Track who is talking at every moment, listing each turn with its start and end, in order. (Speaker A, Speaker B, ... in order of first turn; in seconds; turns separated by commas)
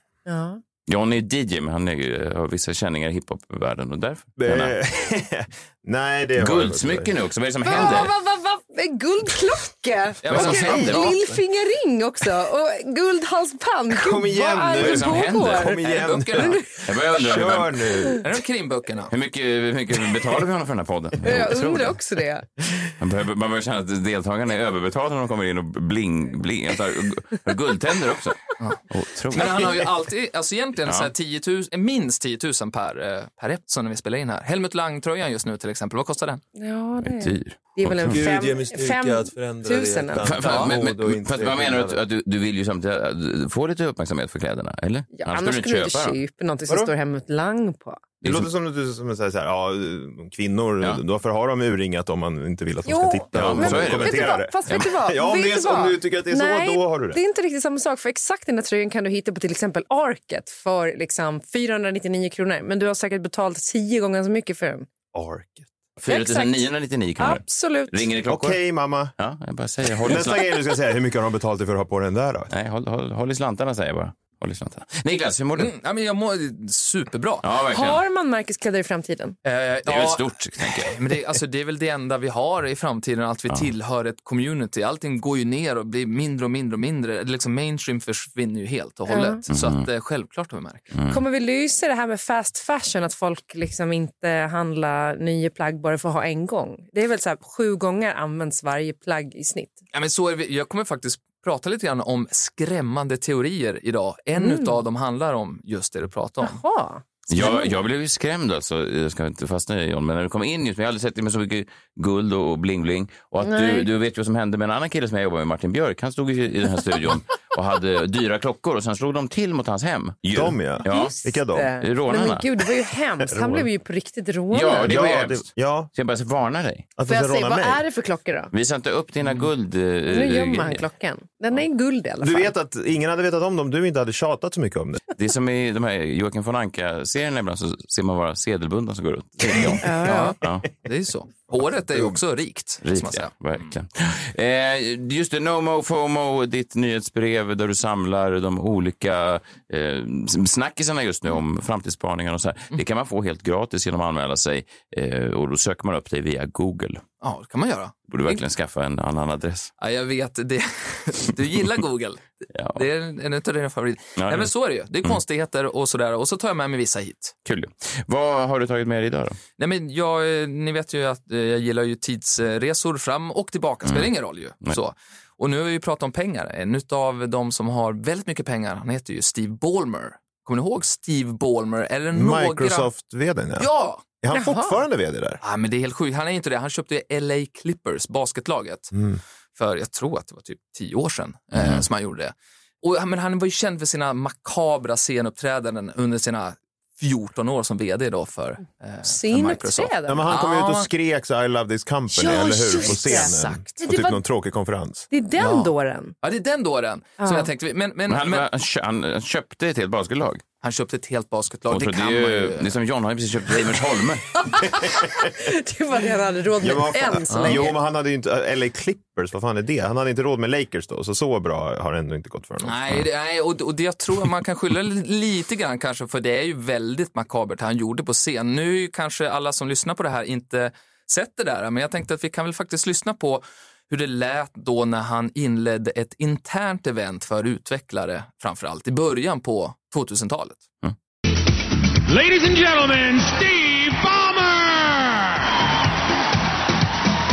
Speaker A: 0.2-0.6, Speaker B: 0.9-4.7, Speaker C: 4.4-7.1, Speaker B: 6.4-8.1, Speaker A: 7.6-15.8, Speaker C: 7.7-8.0, Speaker D: 10.2-11.1, Speaker B: 10.3-11.1, Speaker C: 10.4-11.3, Speaker C: 13.9-18.2, Speaker B: 14.8-15.8, Speaker D: 15.7-16.6, Speaker A: 16.4-16.7, Speaker B: 16.8-17.8, Speaker A: 17.9-18.2, Speaker D: 18.2-19.1, Speaker B: 19.1-21.9, Speaker A: 21.2-22.4, Speaker B: 23.0-29.9, Speaker D: 29.3-36.4, Speaker B: 30.8-31.1, Speaker A: 36.5-40.3, Speaker B: 37.0-38.2, Speaker C: 38.0-42.0, Speaker B: 40.2-46.2, Speaker D: 40.4-40.8, Speaker A: 45.1-48.0, Speaker C: 48.2-57.2, Speaker B: 48.2-48.5, Speaker A: 52.9-64.9, Speaker B: 53.3-54.8, Speaker C: 65.1-65.7, Speaker B: 66.0-68.6, Speaker A: 66.1-68.1, Speaker C: 68.3-69.1, Speaker B: 69.2-70.6, Speaker C: 70.0-72.5, Speaker B: 72.5-75.7, Speaker D: 75.5-77.4, Speaker B: 77.4-78.0, Speaker A: 77.7-79.3, Speaker D: 79.4-90.9, Speaker B: 79.8-81.0, Speaker A: 89.1-89.4, Speaker B: 89.5-89.9, Speaker B: 90.9-91.2, Speaker A: 91.1-99.8, Speaker D: 99.9-106.6, Speaker A: 104.4-104.8, Speaker A: 106.4-107.7, Speaker B: 107.3-121.1, Speaker A: 113.4-113.9, Speaker C: 120.3-121.8, Speaker A: 120.8-125.1, Speaker B: 121.8-122.5, Speaker C: 123.2-123.7, Speaker B: 124.5-126.9, Speaker C: 124.8-125.9, Speaker C: 127.0-127.8, Speaker A: 127.1-128.5, Speaker B: 128.5-130.8, Speaker D: 129.2-129.5, Speaker A: 130.1-132.5, Speaker C: 132.2-135.0, Speaker B: 135.2-140.7, Speaker A: 139.8-140.3, Speaker D: 140.0-143.7, Speaker C: 141.5-142.2, Speaker B: 142.8-157.0, Speaker D: 157.2-158.4, Speaker B: 158.1-159.7, Speaker D: 159.8-167.3, Speaker B: 162.5-162.8, Speaker B: 164.2-164.5, Speaker B: 167.4-169.4, Speaker D: 169.6-182.9, Speaker B: 173.8-174.1, Speaker C: 182.1-185.4, Speaker D: 183.6-184.0, Speaker A: 184.3-184.8, Speaker D: 185.4-188.9, Speaker C: 188.9-189.2, Speaker D: 189.5-200.9, Speaker B: 191.5-191.9, Speaker A: 199.0-200.3, Speaker C: 200.1-205.1, Speaker A: 202.1-204.2, Speaker D: 202.3-203.7, Speaker A: 205.1-206.1, Speaker D: 205.4-208.4, Speaker A: 207.2-207.5, Speaker B: 208.1-210.4, Speaker D: 210.6-212.7, Speaker B: 211.7-214.2, Speaker A: 214.4-217.8, Speaker C: 216.6-222.8, Speaker D: 217.3-217.7, Speaker D: 222.6-240.6, Speaker E: 242.1-245.2